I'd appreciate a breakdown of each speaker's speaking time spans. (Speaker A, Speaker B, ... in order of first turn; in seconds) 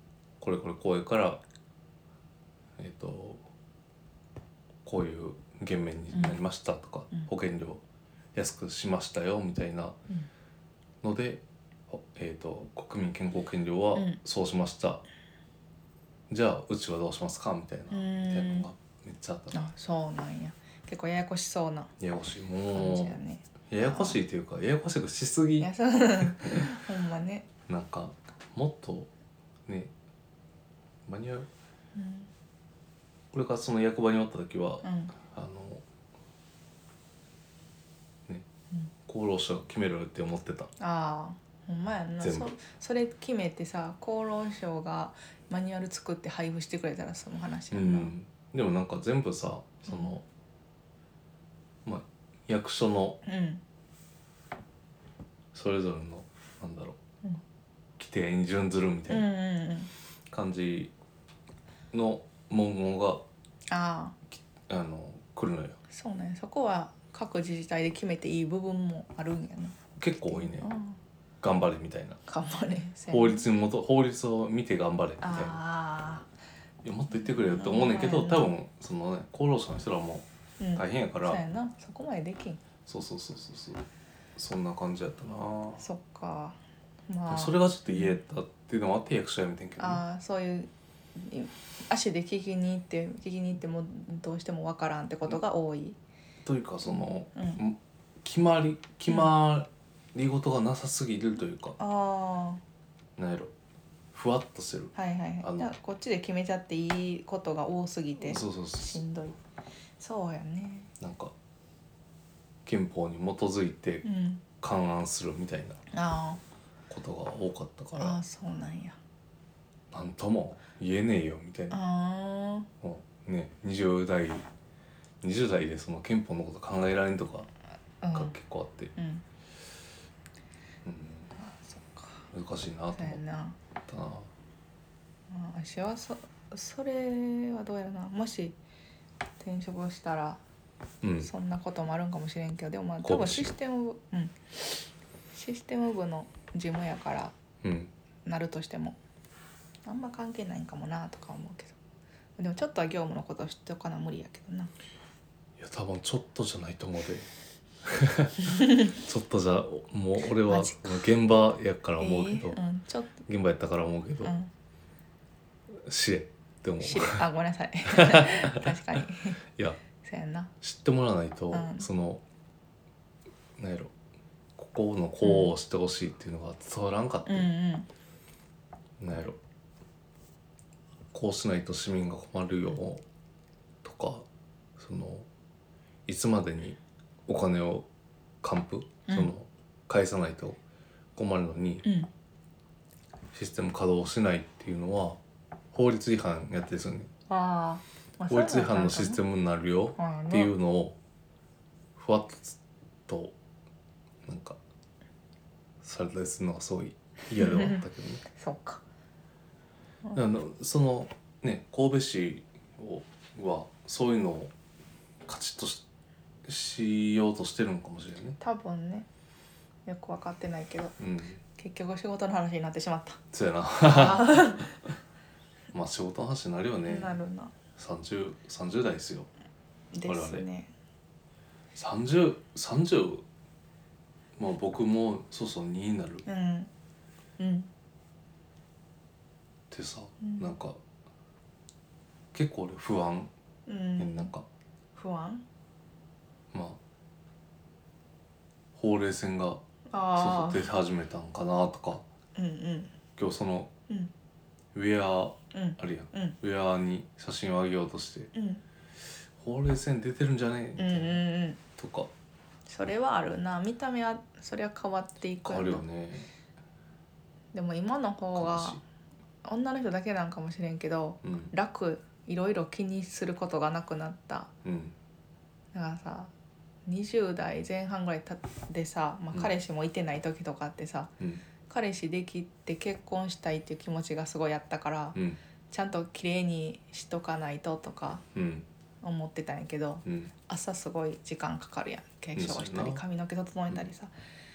Speaker A: 0.4-1.4, 2.8-3.5, 4.8-7.8, 8.3-10.0, 11.0-15.0, 16.3-19.7, 22.0-26.6, 27.7-29.1, 31.1-31.5, 33.3-35.8, 39.1-40.7, 42.2-42.5, 47.7-50.2, 51.9-53.2, 55.5-57.0, 58.0-59.3, 60.3-60.9, 61.9-63.2, 64.3-65.8, 70.0-70.7, 71.4-72.2, 73.1-75.6, 76.8-81.4, 82.9-83.8, 84.4-85.8, 87.3-90.0, 96.5-101.8, 103.2-103.5, 104.1-105.7, 108.2-109.0, 111.0-111.3, 112.7-114.1, 114.6-115.8, 116.9-118.2, 119.9-121.8, 122.8-124.5, 125.2-127.5, 128.1-128.9, 130.8-131.4, 132.3-133.2, 133.9-134.3, 141.0-141.3, 143.0-143.5, 147.6-147.9, 155.6-157.3, 157.8-162.6, 163.2-164.4, 165.9-167.2, 167.9-168.7, 169.6-169.8, 170.6-172.2, 173.6-173.9, 174.6-177.5, 179.0-179.4, 181.1-183.0, 183.8-184.3, 184.8-185.3, 186.1-187.9, 188.4-190.6, 191.2-191.9, 193.3-195.2, 195.7-197.1, 198.3-201.0, 202.0-203.4, 204.3-204.6, 205.8-208.3, 210.1-214.5, 215.2-215.9, 216.4-218.4, 221.0-221.4, 223.3-224.8, 225.7-227.2, 227.8-229.3, 230.1-230.5, 231.8-233.2, 234.4-236.2, 239.7-240.8, 242.3-243.3, 244.0-244.5, 246.5-246.8, 248.8-249.6, 250.2-252.0, 253.2-253.7, 254.7-258.3, 259.4-261.2, 261.8-262.1, 265.4-266.3, 268.4-268.8, 271.2-271.5, 274.6-274.9, 288.3-288.7, 290.1-290.3, 292.4-293.0
Speaker B: 6.1-6.4, 17.9-18.7, 19.5-21.9, 22.7-24.2, 25.6-27.5, 31.9-32.3, 34.8-35.1, 40.8-48.1, 49.9-50.2, 53.2-53.6, 59.1-59.9, 63.7-64.2, 65.9-71.0, 72.3-73.5, 75.2-76.3, 77.2-78.5, 80.6-82.6, 85.8-88.2, 89.8-96.0, 96.8-97.6, 101.8-102.6, 105.0-109.4, 110.0-110.9, 114.0-114.4, 115.9-116.4, 118.0-119.0, 121.7-122.7, 128.0-128.3, 129.0-129.2, 131.4-132.3, 132.9-133.6, 135.3-138.6, 139.4-140.4, 141.2-144.6, 145.3-147.3, 148.3-149.0, 149.9-151.8, 152.4-154.7, 160.4-161.0, 162.0-163.2, 164.2-164.5, 166.8-169.4, 170.0-170.5, 171.5-171.9, 175.2-175.5, 177.3-177.9, 189.1-189.3, 191.8-192.1, 197.3-199.2, 200.0-200.5, 207.4-207.8, 208.3-208.8, 218.4-219.1, 219.9-221.0, 221.6-223.2, 223.8-224.8, 226.9-227.5, 229.9-230.7, 236.3-236.7, 237.4-237.7, 240.2-240.5, 243.7-244.3, 244.9-245.4, 249.9-250.7, 252.4-252.9, 255.5-256.4, 258.3-258.6, 260.8-261.6, 262.7-265.8, 267.5-268.8, 269.4-274.5, 275.7-276.3, 276.9-281.1, 281.7-285.2, 285.7-288.2, 289.0-294.1